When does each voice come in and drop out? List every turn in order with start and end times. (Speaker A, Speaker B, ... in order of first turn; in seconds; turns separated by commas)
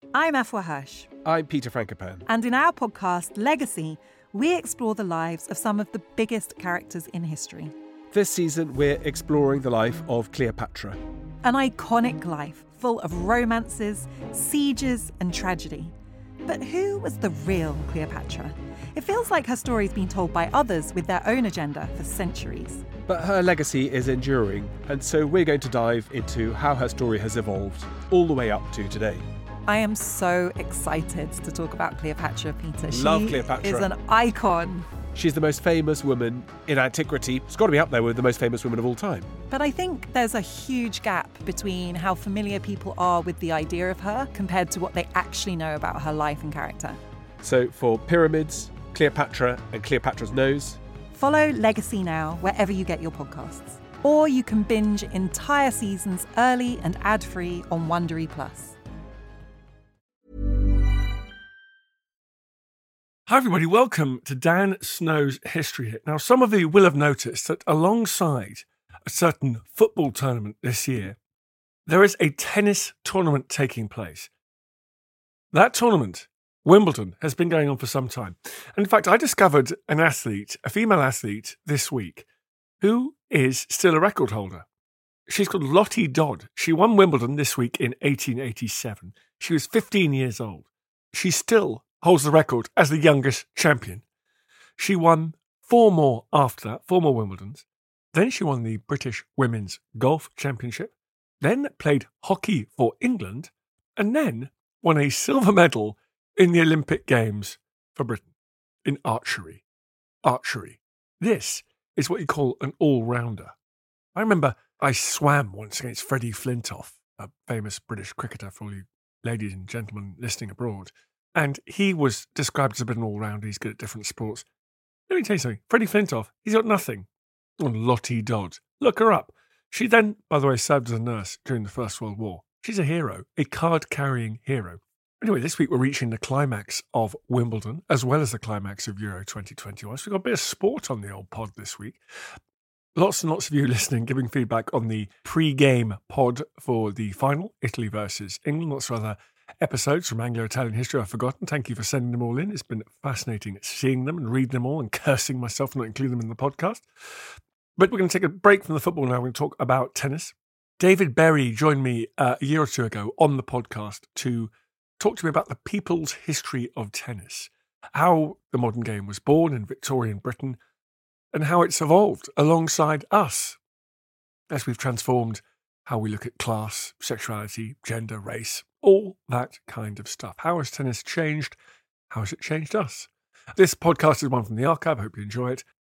Speaker A: 0.1-1.1, Speaker B: 1.2-2.2, Speaker A: 2.3-7.7, Speaker B: 8.1-11.0, Speaker A: 11.4-15.9, Speaker A: 16.4-22.9, Speaker B: 23.1-29.2, Speaker A: 29.7-34.9, Speaker B: 32.9-33.9, Speaker B: 35.1-39.3, Speaker A: 39.5-47.0, Speaker B: 47.4-50.8, Speaker A: 51.1-58.8, Speaker C: 63.3-71.2, Speaker C: 71.9-74.3, Speaker C: 75.5-82.3, Speaker C: 82.8-84.7, Speaker C: 85.3-94.0, Speaker C: 94.8-108.3, Speaker C: 108.8-109.6, Speaker C: 110.2-113.5, Speaker C: 114.2-124.5, Speaker C: 125.1-127.1, Speaker C: 127.6-142.0, Speaker C: 143.0-156.9, Speaker C: 157.8-170.6, Speaker C: 171.3-173.6, Speaker C: 174.5-181.6, Speaker C: 182.1-185.7